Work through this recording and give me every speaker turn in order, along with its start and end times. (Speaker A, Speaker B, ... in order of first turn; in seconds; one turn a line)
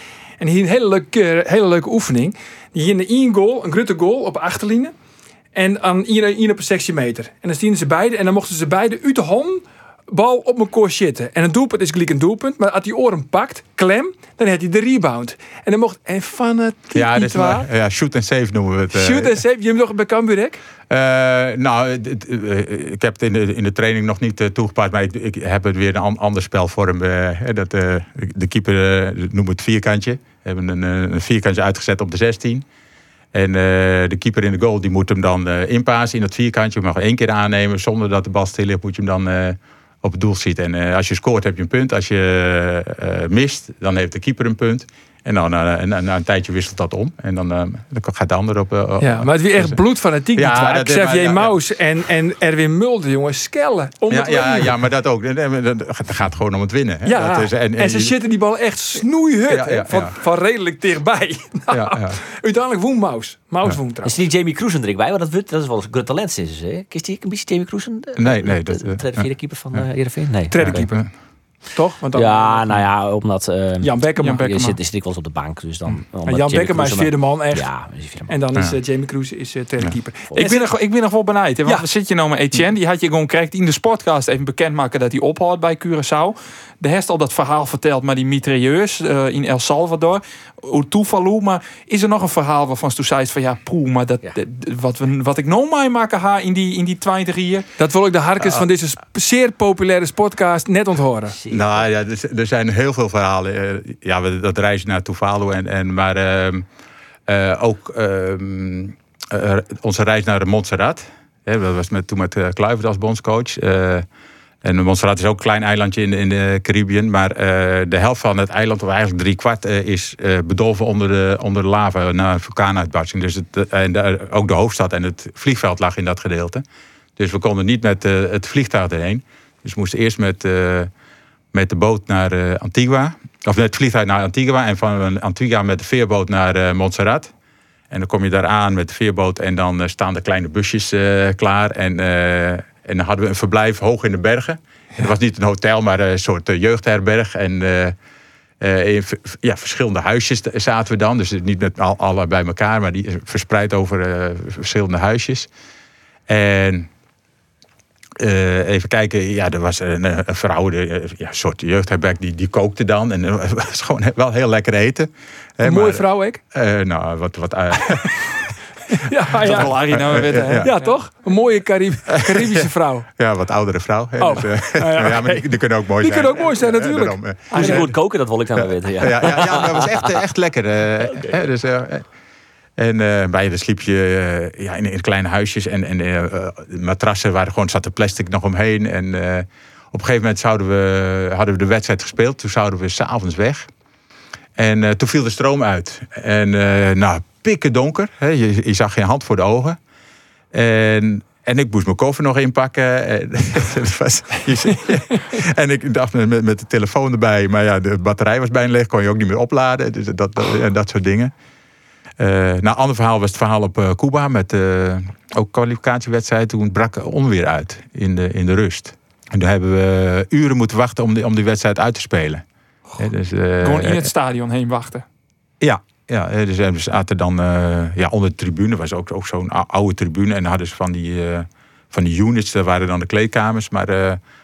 Speaker A: 0.4-4.9
Speaker A: 5.5-17.7
Speaker B: 16.9-19.4
Speaker A: 18.9-20.6
Speaker B: 20.9-32.6
Speaker B: 33.3-49.8
Speaker A: 49.0-54.7
Speaker B: 50.3-51.6
Speaker B: 54.1-58.1
Speaker A: 57.0-64.2
Speaker B: 59.4-60.1
Speaker B: 61.7-62.2
Speaker C: 64.0-70.9
Speaker B: 68.2-69.8
Speaker A: 70.5-71.0
Speaker B: 70.6-71.1
Speaker A: 71.7-72.7
Speaker C: 72.1-78.3
Speaker A: 73.8-74.4
Speaker D: 74.2-74.8
Speaker A: 76.2-77.7
Speaker A: 78.3-80.7
Speaker D: 80.3-97.6
Speaker A: 97.8-101.4
Speaker C: 101.3-101.8
Speaker B: 101.5-106.7
Speaker B: 107.3-114.0
Speaker B: 114.6-126.6
Speaker B: 127.2-130.9
Speaker B: 131.5-137.3
Speaker B: 137.9-147.9
Speaker B: 148.6-155.5
Speaker B: 156.3-156.9
Speaker B: 158.2-168.4
Speaker A: 165.6-166.4
Speaker A: 168.9-170.0
Speaker D: 169.4-170.9
Speaker B: 169.4-170.7
Speaker A: 170.6-173.1
Speaker B: 172.1-178.0
Speaker A: 174.2-175.5
Speaker A: 176.0-177.9
Speaker C: 177.5-180.2
Speaker B: 178.5-182.0
Speaker B: 182.8-193.7
Speaker B: 194.6-199.8
Speaker B: 200.5-211.3
Speaker B: 212.2-222.4
Speaker B: 223.0-224.1
Speaker D: 223.6-225.0
Speaker B: 225.6-234.2